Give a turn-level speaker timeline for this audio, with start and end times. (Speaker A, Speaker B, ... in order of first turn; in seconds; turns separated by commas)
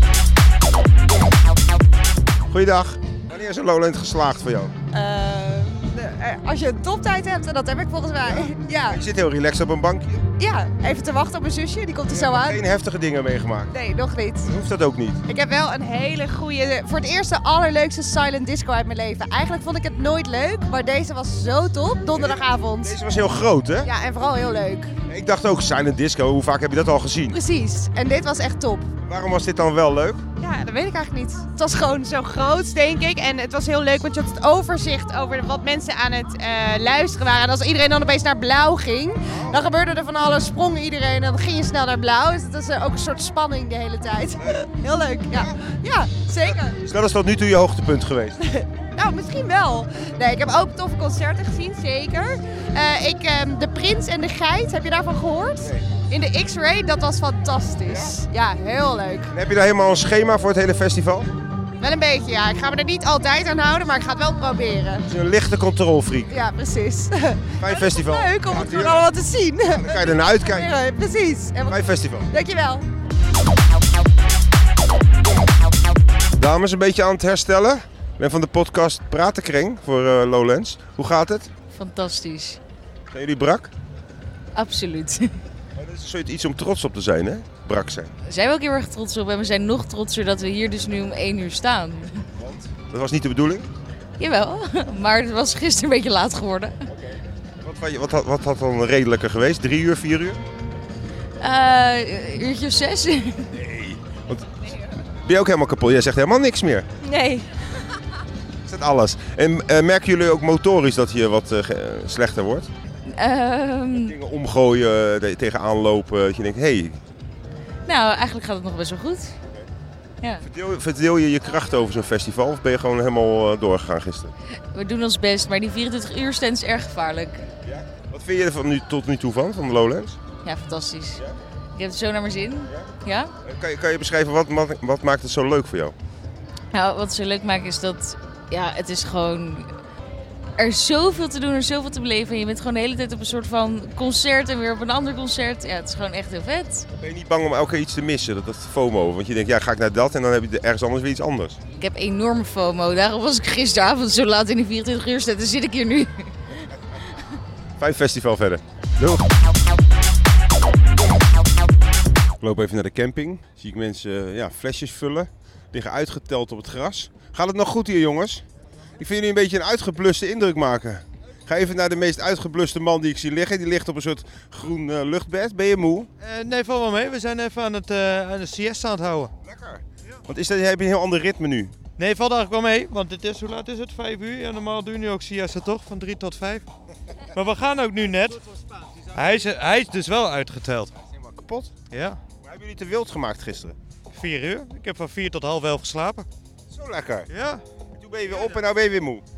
Speaker A: 2.5-4.7, Speaker B: 4.9-9.0, Speaker A: 8.2-10.3, Speaker B: 10.4-12.6, Speaker A: 12.1-13.7, Speaker B: 13.7-14.5, Speaker A: 14.4-15.2, Speaker B: 15.3-23.0, Speaker A: 22.1-23.9, Speaker B: 23.8-24.9, Speaker A: 25.1-27.4, Speaker B: 27.3-28.9, Speaker A: 29.1-30.2, Speaker B: 30.4-46.8, Speaker A: 39.3-39.7, Speaker A: 44.4-44.6, Speaker A: 45.3-45.6, Speaker A: 46.5-48.4, Speaker B: 48.5-59.3, Speaker A: 55.6-55.9, Speaker A: 57.9-58.1, Speaker A: 59.3-61.3, Speaker B: 61.8-65.0, Speaker A: 65.1-66.3, Speaker B: 66.3-72.8, Speaker A: 67.6-69.1, Speaker A: 69.7-70.7, Speaker A: 71.7-72.3, Speaker A: 76.4-81.5, Speaker C: 81.7-82.6, Speaker A: 83.1-83.7, Speaker C: 84.5-85.3, Speaker A: 85.8-88.1, Speaker C: 88.3-92.2, Speaker A: 92.4-93.7, Speaker C: 94.2-96.7, Speaker A: 96.9-100.4, Speaker C: 101.4-103.5, Speaker A: 103.5-104.5, Speaker A: 105.2-106.9, Speaker A: 108.6-112.7, Speaker C: 113.1-114.1, Speaker A: 113.9-117.0, Speaker C: 117.9-119.3, Speaker A: 120.4-124.3, Speaker C: 124.7-127.4, Speaker A: 127.6-130.2, Speaker C: 130.4-131.2, Speaker C: 131.8-133.3, Speaker A: 133.4-135.9, Speaker C: 136.7-139.7, Speaker C: 140.6-146.9, Speaker A: 146.9-151.6, Speaker C: 151.8-156.1, Speaker A: 157.8-159.3, Speaker A: 162.4-168.4, Speaker A: 169.0-176.1, Speaker D: 176.2-179.3, Speaker A: 179.4-181.8, Speaker D: 182.0-186.6, Speaker D: 187.3-188.4, Speaker D: 189.1-190.9, Speaker A: 191.1-191.8, Speaker D: 191.9-192.2, Speaker A: 192.4-193.8, Speaker D: 194.1-196.3, Speaker A: 196.7-197.3, Speaker D: 197.3-197.6, Speaker A: 198.0-199.2